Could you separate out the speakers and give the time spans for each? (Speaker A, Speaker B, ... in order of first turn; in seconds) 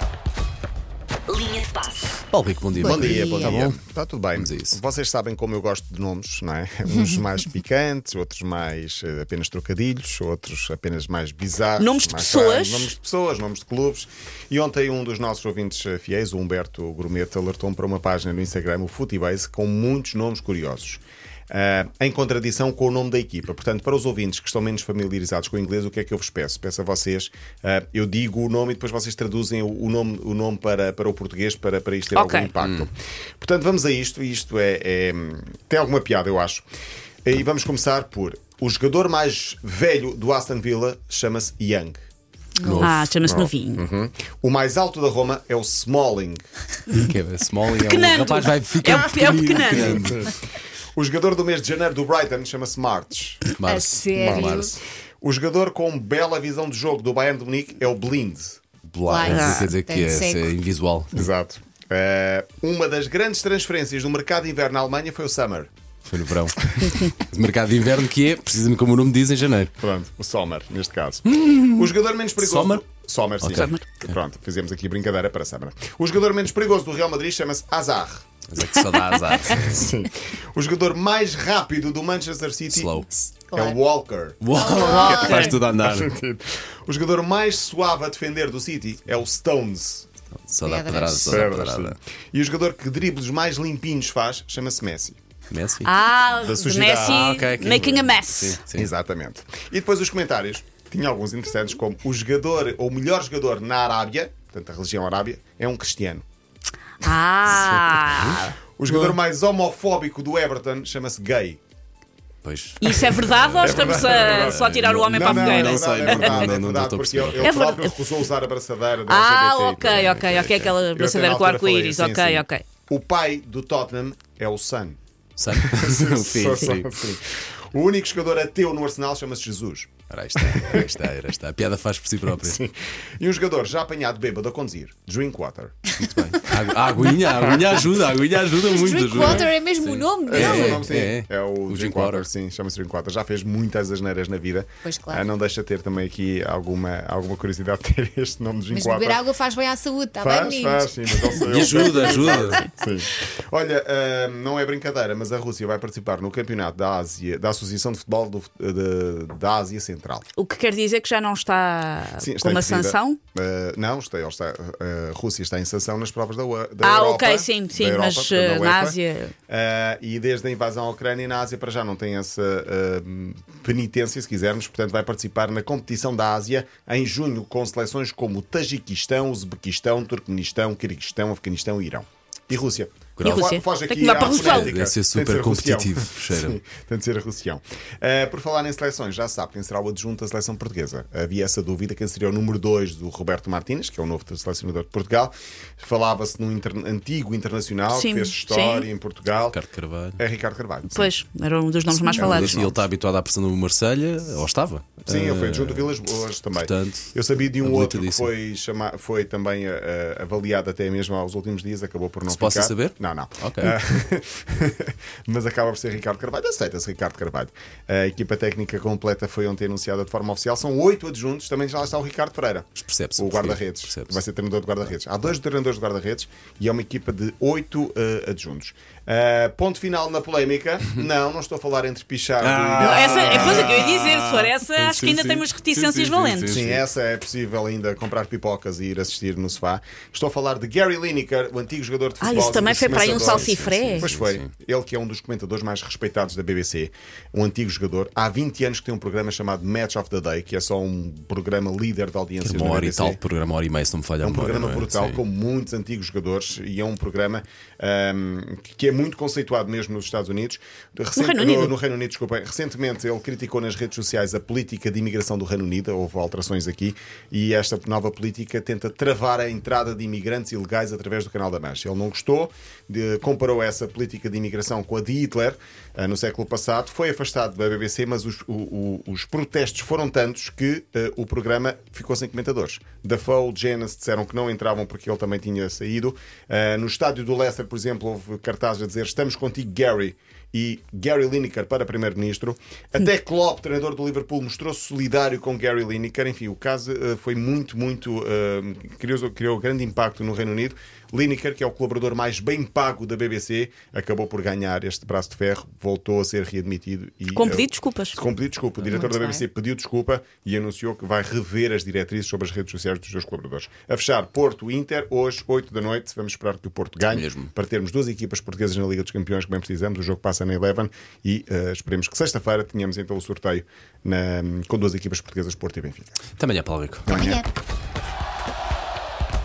Speaker A: 2.3-3.8, 4.3-4.8, 42.6-43.1, 46.9-50.3, 53.5-54.8, 58.9-61.3, 66.1-69.7, 71.3-71.9, 72.4-72.8, 73.4-74.1, 78.5-79.8, 82.7-83.3, 84.4-86.1, 90.4-92.0, 95.5-95.9, 97.0-98.9, 108.1-108.5, 112.4-117.5, 119.8-120.7, 125.4-126.9, 130.1-132.6, 136.0-142.3, 151.4-152.6, 183.2-183.5, 184.2-186.6, 199.5-200.2, 202.1-206.0, 206.6-208.3, 212.3-213.8, 222.8-224.2, 232.4-236.8, 242.8-244.5, 252.4-255.2, 317.1-317.5, 326.4-327.1
Speaker B: 2.8-3.6, 53.6-54.8, 59.0-60.5, 83.5-83.8, 84.5-85.6, 90.6-91.5, 138.6-140.9, 144.8-145.2, 148.7-152.5, 308.9-309.4, 327.1-327.5
Speaker C: 2.8-36.6, 37.2-42.0, 43.2-46.4, 49.8-50.3, 51.0-53.4, 54.2-54.6, 55.2-58.6, 61.1-65.7, 69.8-78.2, 79.5-82.9, 83.5-90.1, 91.3-95.2, 96.4-97.3, 98.7-106.2, 108.8-111.6, 113.6-125.0, 125.5-130.9, 132.3-135.8, 140.2-149.2, 150.2-160.3, 162.2-169.0, 169.5-199.6, 200.2-201.1, 202.1-202.8, 205.1-234.0, 236.5-253.2, 254.2-326.2, 327.1-327.4
Speaker D: 11.8-12.9, 32.1-32.5, 42.8-43.8, 47.8-50.0, 59.2-59.7, 73.5-73.8, 84.8-85.5, 95.8-98.6, 107.0-109.1, 112.8-116.5, 117.4-117.9, 119.1-122.7, 160.4-163.2, 166.8-169.3, 183.2-184.8, 197.9-198.9, 200.9-202.6, 232.8-236.6, 242.2-244.1, 261.2-261.7, 307.3-308.2